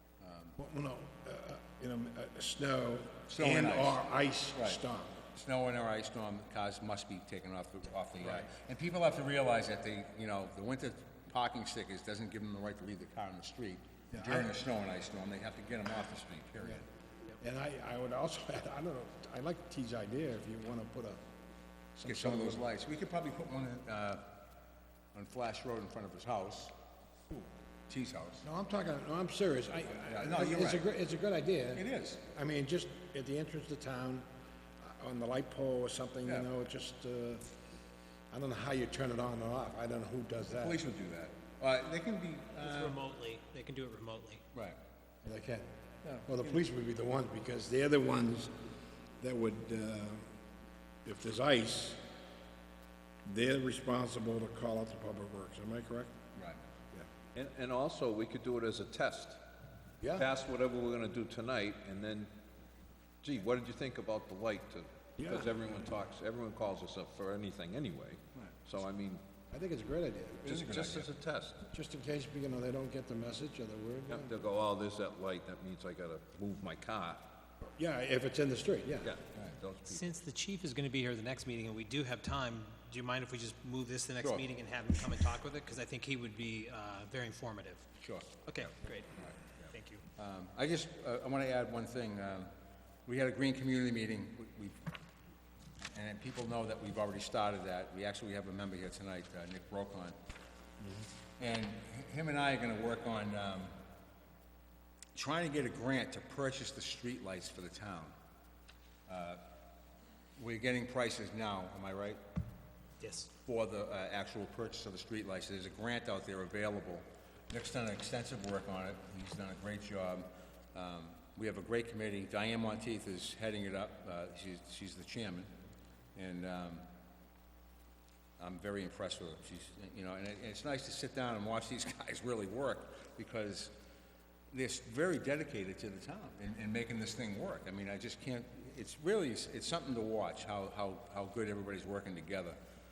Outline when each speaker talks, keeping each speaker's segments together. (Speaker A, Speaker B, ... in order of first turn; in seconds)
Speaker A: 0.2-0.6, 3.3-4.8, 5.3-16.8, 22.1-24.3, 25.1-26.7, 27.9-28.5, 29.9-30.9, 31.7-32.2, 36.2-36.5, 40.5-43.0, 46.0-46.6, 56.4-56.6, 70.4-71.1, 84.2-84.5, 88.0-88.5, 90.2-92.5, 93.1-94.8, 95.9-100.2, 101.4-103.7, 105.2-108.1, 109.1-109.4, 110.4-112.2, 113.4-125.5, 126.2-126.8, 128.4-133.7, 134.5-142.6
Speaker B: 0.6-5.2, 8.2-8.5, 14.1-14.5, 17.4-21.2, 21.9-22.6, 28.4-34.3, 34.8-37.5, 38.3-40.8, 45.2-45.7, 46.2-48.5, 49.2-50.2, 51.0-52.0, 53.2-56.1, 60.0-60.3, 65.2-65.5, 69.5-70.5, 71.7-74.3, 77.8-79.1, 100.8-101.1
Speaker C: 42.6-44.4, 79.8-87.9, 88.4-89.1, 89.7-90.0, 113.0-113.3
Speaker D: 56.9-59.4, 60.1-62.3, 63.2-69.2, 70.4-71.7, 74.1-77.3, 79.0-80.1